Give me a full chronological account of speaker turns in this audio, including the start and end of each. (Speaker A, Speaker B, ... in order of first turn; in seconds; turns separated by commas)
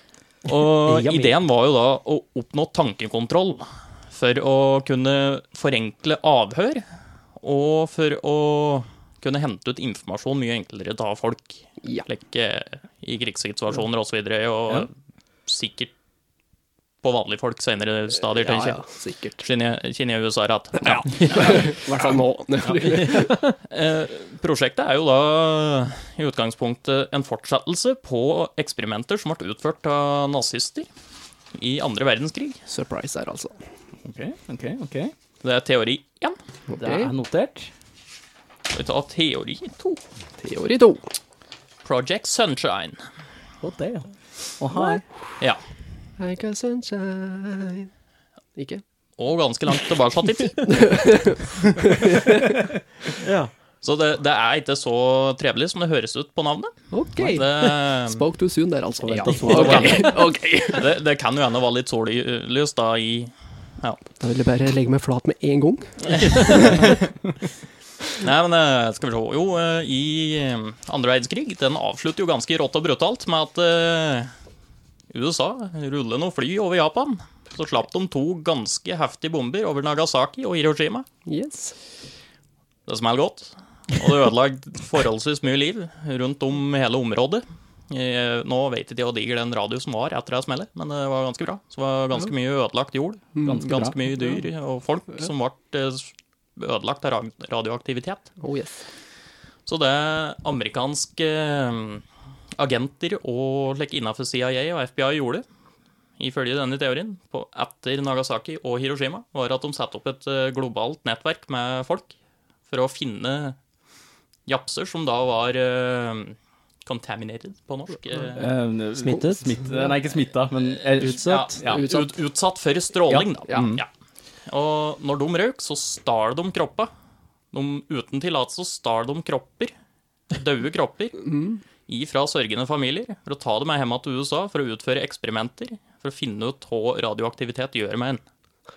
Speaker A: 0.5-6.8, Speaker B: 0.8-1.4, Speaker A: 7.4-14.9, Speaker A: 15.5-15.9, Speaker A: 17.0-18.8, Speaker C: 18.3-19.4, Speaker A: 19.4-21.7, Speaker C: 20.8-23.4, Speaker B: 22.9-23.5, Speaker A: 23.7-30.9, Speaker A: 31.5-32.6, Speaker C: 32.7-33.5, Speaker D: 34.0-35.1, Speaker A: 35.4-36.4, Speaker C: 36.7-37.1, Speaker D: 36.8-37.7, Speaker A: 38.7-40.0, Speaker C: 40.4-41.0, Speaker A: 41.8-43.0, Speaker D: 43.6-45.0, Speaker C: 44.7-45.0, Speaker C: 46.2-47.9, Speaker C: 48.5-48.8, Speaker A: 49.2-51.0, Speaker C: 50.6-52.6, Speaker B: 53.2-53.5, Speaker A: 53.8-58.2, Speaker C: 56.9-60.8, Speaker D: 59.1-60.1, Speaker A: 59.1-64.0, Speaker C: 64.2-66.9, Speaker A: 66.1-67.1, Speaker A: 68.2-74.3, Speaker A: 75.1-81.0, Speaker C: 81.2-81.7, Speaker A: 82.9-98.3, Speaker C: 93.3-93.6, Speaker D: 93.4-93.9, Speaker C: 98.4-98.8, Speaker A: 99.7-102.0, Speaker A: 102.6-105.4, Speaker A: 106.2-112.1, Speaker A: 112.7-113.5, Speaker A: 114.5-118.5, Speaker D: 118.3-121.8, Speaker B: 119.0-119.6, Speaker B: 121.0-121.6, Speaker A: 121.2-123.9, Speaker C: 121.6-122.1, Speaker D: 123.1-123.8, Speaker A: 124.5-126.9, Speaker A: 127.5-129.7, Speaker A: 130.3-131.3, Speaker C: 131.2-131.6, Speaker A: 131.9-138.2